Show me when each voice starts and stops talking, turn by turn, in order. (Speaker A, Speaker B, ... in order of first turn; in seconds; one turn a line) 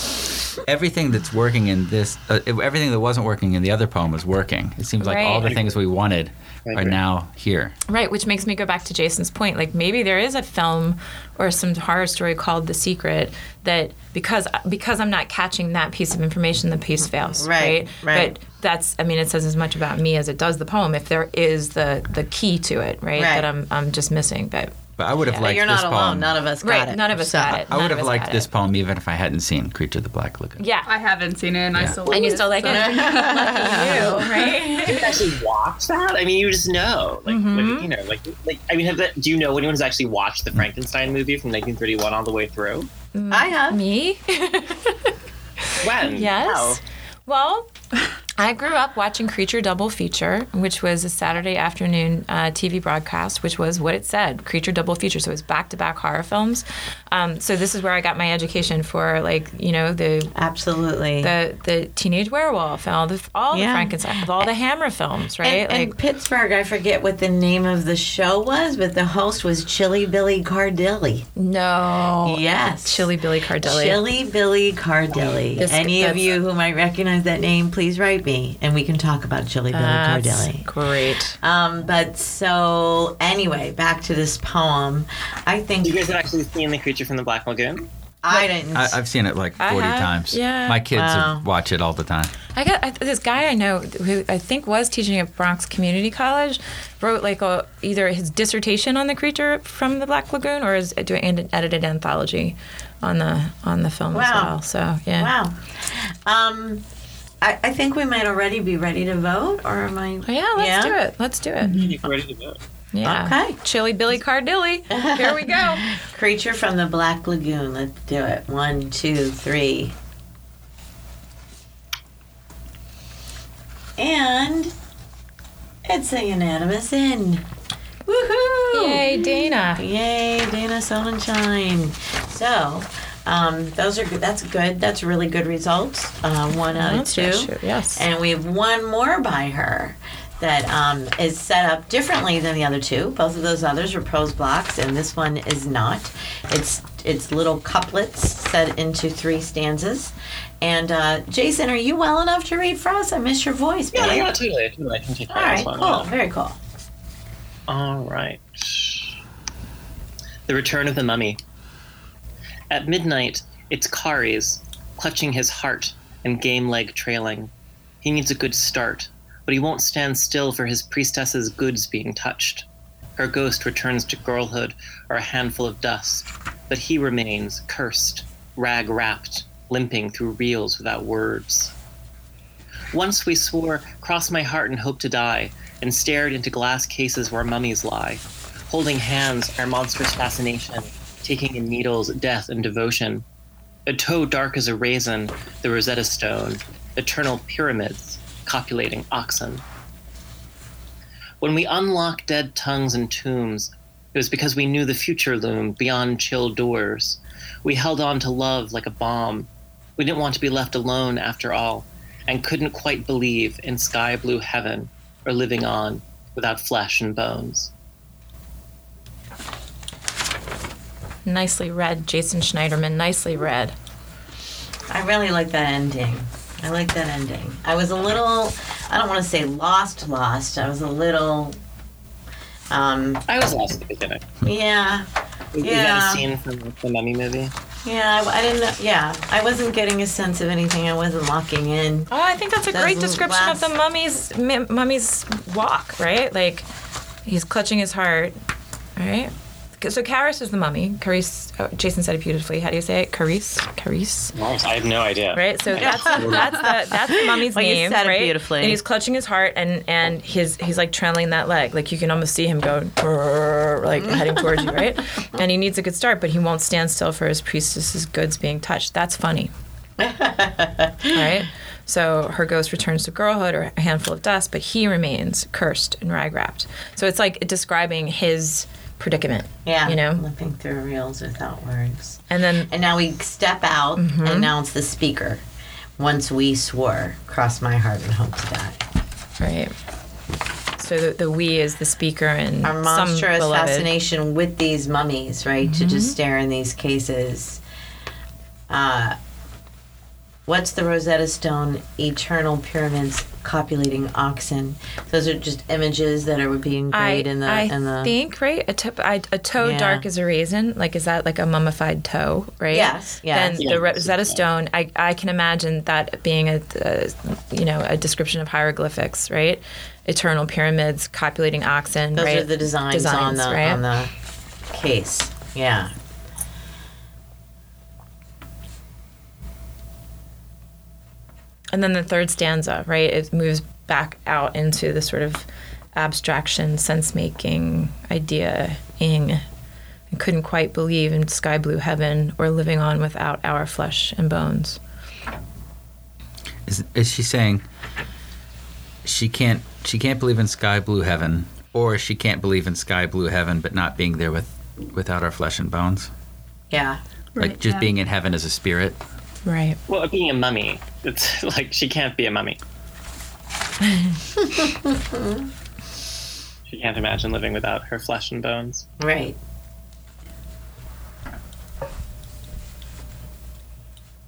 Speaker A: 0.7-7.7
Speaker B: 5.0-5.5
Speaker C: 6.7-7.0
Speaker B: 7.9-25.5
Speaker D: 17.0-18.3
Speaker D: 23.1-23.5
Speaker A: 25.0-26.4
Speaker D: 25.4-27.6
Speaker B: 26.6-28.5
Speaker A: 27.5-30.6
Speaker B: 30.6-30.9
Speaker E: 30.9-34.3
Speaker A: 31.7-32.0
Speaker B: 32.1-35.2
Speaker D: 32.6-34.5
Speaker C: 34.8-42.9
Speaker B: 37.3-37.9
Speaker B: 43.1-47.7
Speaker D: 43.3-43.8
Speaker C: 45.8-46.8
Speaker B: 48.4-60.3
Speaker D: 60.3-61.3
Speaker B: 61.2-65.9
Speaker D: 63.5-64.4
Speaker D: 65.4-71.3
Speaker B: 71.3-74.0
Speaker D: 72.2-80.7
Speaker B: 75.6-76.4
Speaker B: 79.7-81.3
Speaker D: 81.4-86.1
Speaker C: 85.8-87.9
Speaker D: 88.2-89.0
Speaker A: 88.7-92.3
Speaker B: 89.6-90.8
Speaker D: 90.9-91.4
Speaker B: 92.5-105.3
Speaker D: 104.1-104.5
Speaker D: 105.2-106.8
Speaker D: 107.4-111.0
Speaker B: 110.2-111.9
Speaker E: 111.6-111.9
Speaker C: 111.7-112.6
Speaker B: 112.9-116.0
Speaker D: 113.0-113.6
Speaker D: 114.9-119.9
Speaker D: 124.0-124.7
Speaker D: 125.8-127.5
Speaker D: 128.1-154.3
Speaker B: 128.7-129.8
Speaker B: 136.7-138.0
Speaker C: 153.9-156.1
Speaker D: 155.3-156.6
Speaker C: 157.7-159.2
Speaker C: 160.5-161.4
Speaker C: 162.7-167.5
Speaker C: 168.0-172.7
Speaker C: 173.2-181.7
Speaker C: 182.9-193.2
Speaker C: 193.8-199.6
Speaker C: 201.4-217.7
Speaker B: 221.2-223.7
Speaker D: 224.9-231.6
Speaker D: 232.7-233.2
Speaker C: 233.3-234.3
Speaker D: 234.4-235.1
Speaker C: 235.5-237.5
Speaker D: 235.6-236.2
Speaker D: 237.8-242.1
Speaker B: 242.1-246.7
Speaker D: 242.7-243.7
Speaker B: 247.2-248.3
Speaker B: 249.0-254.3
Speaker C: 254.3-256.5
Speaker B: 255.3-269.5
Speaker D: 255.8-258.8
Speaker D: 264.0-264.7
Speaker D: 270.0-271.3
Speaker B: 271.1-280.2
Speaker D: 279.6-285.4
Speaker B: 282.3-282.7
Speaker B: 284.0-284.5
Speaker D: 286.0-288.8
Speaker B: 289.4-289.7
Speaker B: 290.8-293.9
Speaker D: 292.6-297.6
Speaker B: 295.6-296.1
Speaker D: 298.7-299.2
Speaker D: 300.4-308.1
Speaker B: 306.9-323.8
Speaker D: 309.6-310.1
Speaker D: 312.7-313.7
Speaker C: 313.6-314.4
Speaker D: 322.1-324.1
Speaker D: 324.7-325.9
Speaker B: 331.7-339.4
Speaker B: 340.1-344.8
Speaker A: 346.6-347.6
Speaker A: 349.0-356.1
Speaker D: 356.7-357.0
Speaker E: 357.4-357.9
Speaker A: 357.4-359.0
Speaker B: 359.4-359.8
Speaker C: 359.9-362.6
Speaker D: 364.4-365.4
Speaker C: 366.7-368.9
Speaker D: 369.0-369.4